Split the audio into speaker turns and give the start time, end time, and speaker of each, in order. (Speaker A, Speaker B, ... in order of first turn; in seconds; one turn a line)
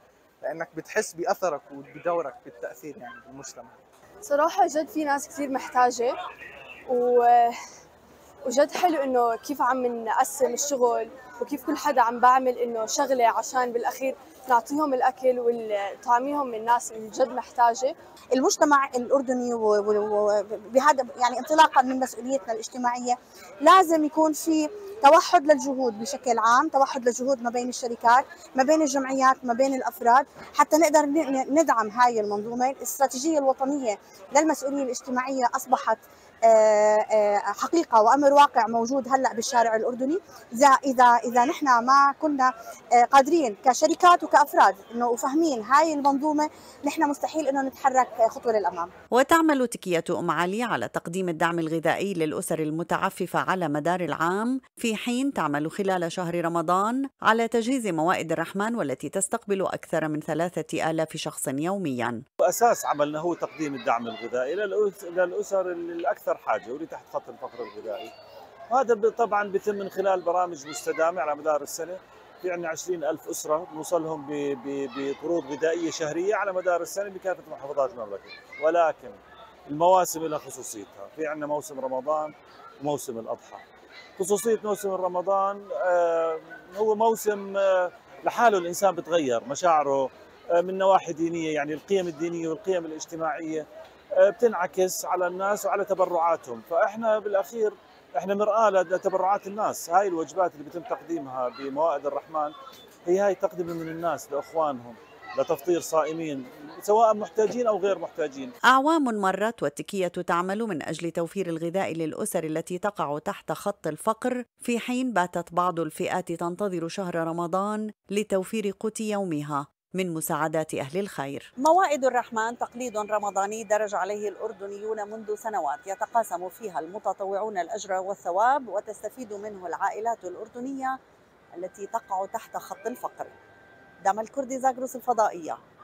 Speaker A: 0.4-3.8
Speaker B: 4.2-6.2
Speaker B: 6.9-7.5
Speaker B: 8.4-17.9
Speaker C: 18.3-48.9
Speaker D: 49.1-62.2
Speaker E: 62.4-68.1
Speaker E: 68.7-83.6
Speaker E: 84.2-93.7
Speaker E: 94.2-102.5
Speaker E: 103.1-108.5
Speaker D: 108.7-121.6
Speaker F: 121.6-130.9
Speaker F: 131.7-133.3
Speaker F: 134.1-135.6